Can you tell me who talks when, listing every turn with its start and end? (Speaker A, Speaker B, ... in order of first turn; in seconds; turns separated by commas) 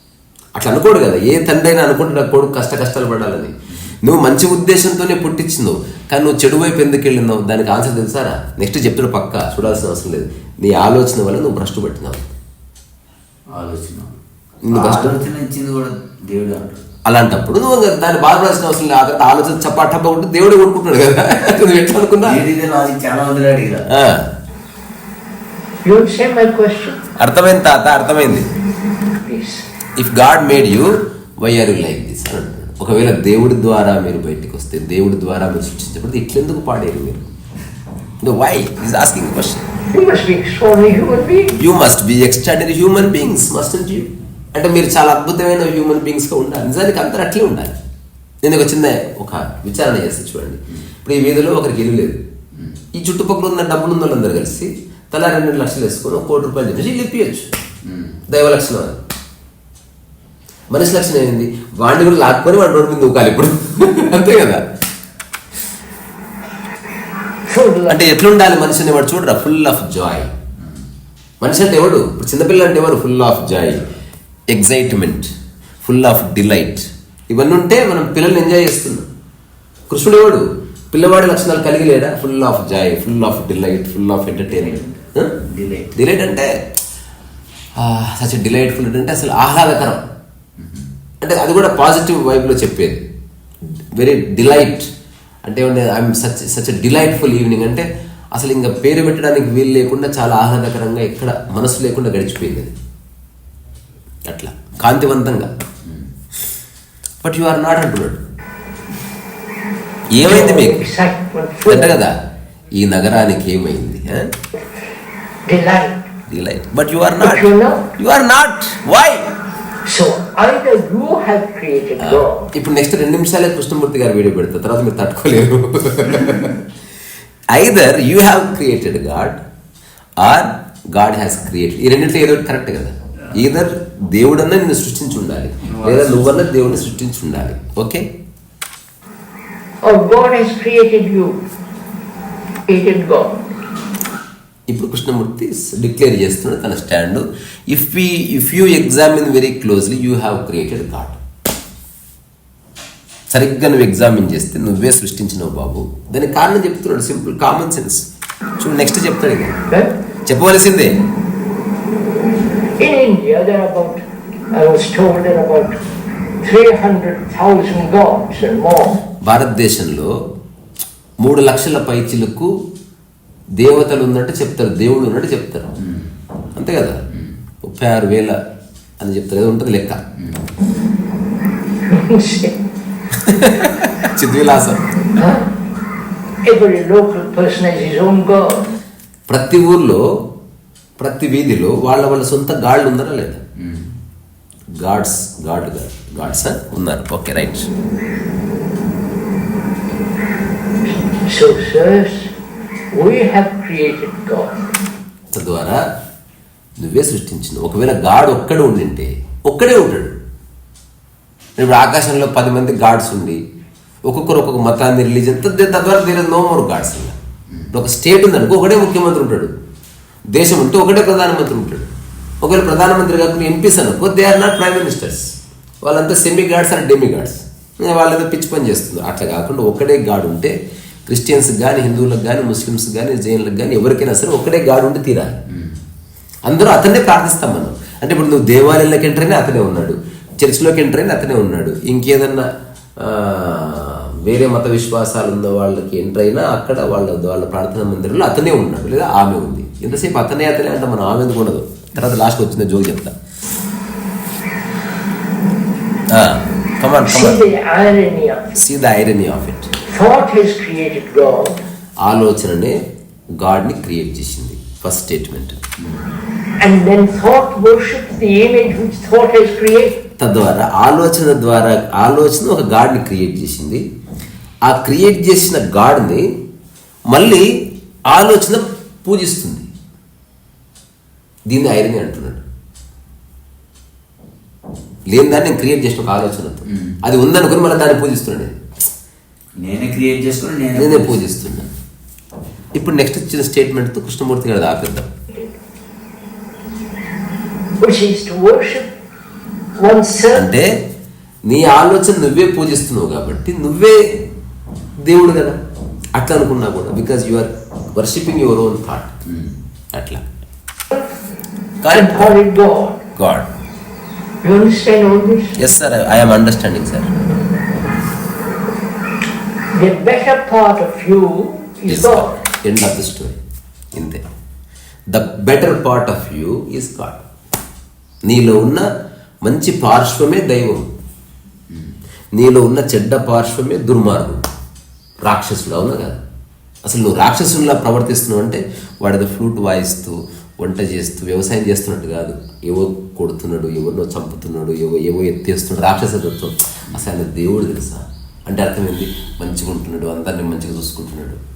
Speaker A: 0.6-12.3, Speaker B: 13.5-14.1, Speaker A: 14.6-15.2, Speaker B: 14.7-16.8, Speaker A: 17.0-22.4, Speaker B: 22.2-23.9, Speaker A: 23.9-24.2, Speaker C: 25.8-27.0, Speaker A: 27.2-28.5, Speaker C: 29.2-29.6, Speaker A: 30.0-37.2, Speaker A: 38.2-39.6, Speaker C: 39.9-41.6, Speaker A: 41.6-47.7, Speaker A: 48.4-52.2, Speaker A: 52.9-57.5, Speaker B: 57.9-58.2, Speaker A: 58.3-59.0, Speaker A: 60.7-64.6, Speaker C: 67.5-68.1, Speaker A: 67.9-70.3, Speaker A: 71.4-73.8, Speaker A: 74.5-75.3, Speaker A: 75.8-79.0, Speaker A: 79.9-85.3, Speaker B: 84.5-86.0, Speaker A: 85.9-86.5, Speaker A: 87.8-90.0, Speaker B: 90.6-90.8, Speaker A: 91.2-93.0, Speaker A: 94.0-94.9, Speaker A: 95.4-102.7, Speaker A: 104.3-105.5, Speaker A: 107.2-108.2, Speaker A: 110.1-110.9, Speaker C: 110.2-112.0, Speaker A: 111.7-112.1, Speaker A: 112.8-114.3, Speaker C: 115.5-116.1, Speaker A: 116.3-119.3, Speaker C: 117.2-117.9, Speaker C: 119.8-122.5, Speaker A: 122.0-126.6, Speaker A: 127.5-129.4, Speaker A: 130.2-138.1, Speaker B: 135.8-136.3, Speaker C: 139.8-141.4, Speaker C: 142.7-143.5, Speaker A: 144.7-151.2, Speaker A: 153.3-158.0, Speaker A: 158.6-159.6, Speaker A: 160.2-160.9, Speaker C: 162.8-165.8, Speaker C: 166.4-169.0, Speaker A: 169.2-170.1, Speaker A: 171.2-172.5, Speaker A: 173.6-175.7, Speaker A: 176.5-177.0, Speaker A: 177.6-178.4, Speaker A: 179.0-180.0, Speaker C: 181.9-182.6, Speaker A: 183.1-184.8, Speaker C: 185.2-185.5, Speaker C: 186.4-188.7, Speaker A: 189.3-190.0, Speaker A: 191.0-193.4, Speaker B: 193.6-193.9, Speaker A: 194.8-197.7, Speaker C: 201.2-202.3, Speaker C: 202.9-204.6, Speaker A: 205.3-205.8, Speaker A: 206.8-210.1, Speaker A: 211.6-213.4, Speaker A: 214.1-217.2, Speaker A: 217.7-219.5, Speaker A: 220.3-221.9, Speaker A: 222.4-225.2, Speaker A: 225.8-230.5, Speaker A: 231.1-235.4, Speaker A: 236.5-242.5, Speaker A: 243.0-253.1, Speaker A: 256.1-257.4, Speaker C: 257.1-258.5, Speaker A: 258.5-259.7, Speaker C: 259.9-261.6, Speaker A: 262.0-262.8, Speaker A: 263.4-265.6, Speaker C: 266.6-270.0, Speaker A: 270.2-273.8, Speaker A: 274.6-276.2, Speaker A: 277.1-277.4, Speaker A: 278.1-279.7, Speaker A: 281.5-282.4, Speaker A: 285.1-288.6, Speaker B: 289.6-291.2, Speaker A: 290.7-291.7, Speaker A: 292.7-295.1, Speaker C: 297.8-298.9, Speaker C: 299.8-300.5, Speaker A: 300.3-300.7, Speaker A: 301.4-304.0, Speaker A: 305.0-305.6, Speaker A: 306.1-309.1, Speaker A: 309.9-310.2, Speaker A: 311.8-312.4, Speaker C: 311.9-313.0, Speaker A: 313.1-313.5, Speaker C: 314.4-315.6, Speaker A: 315.6-317.1, Speaker C: 319.7-322.4, Speaker A: 321.9-323.4, Speaker A: 323.9-324.2, Speaker A: 325.1-327.2, Speaker A: 328.2-328.8, Speaker A: 329.4-330.8, Speaker A: 332.3-334.4, Speaker A: 335.2-336.2, Speaker A: 336.8-351.4